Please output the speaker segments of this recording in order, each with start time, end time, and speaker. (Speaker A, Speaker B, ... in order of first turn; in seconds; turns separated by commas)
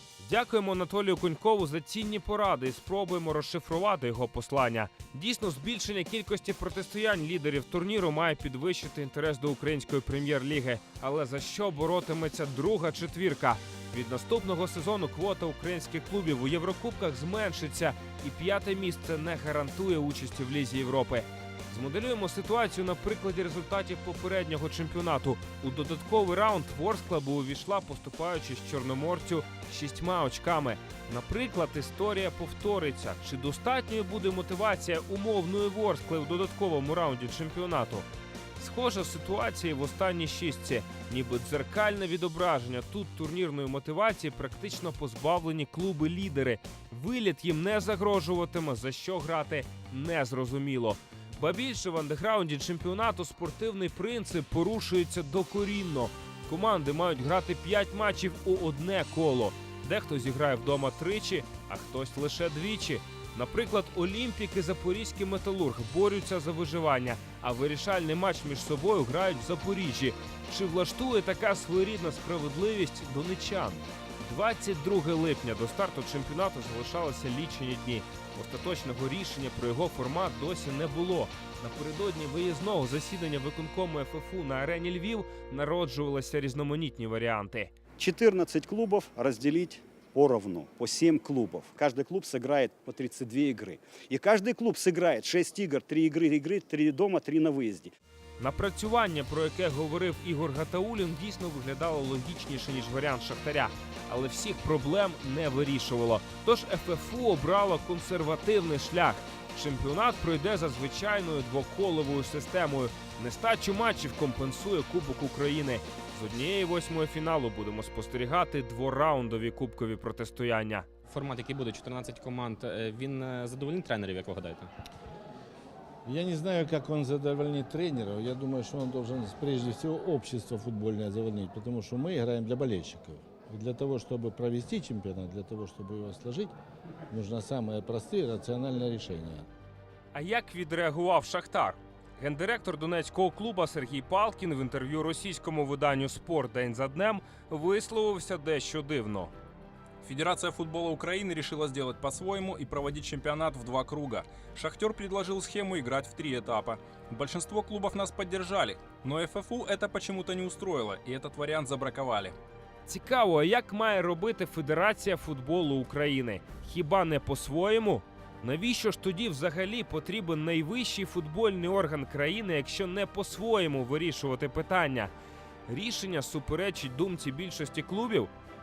Speaker A: 0.2-38.0, Speaker A: 38.6-87.7, Speaker B: 88.0-97.9, Speaker A: 98.4-120.9, Speaker C: 121.1-124.7, Speaker D: 126.0-136.5, Speaker D: 137.1-139.4, Speaker A: 140.1-149.3, Speaker E: 150.0-162.3, Speaker A: 162.9-175.1, Speaker A: 175.7-178.3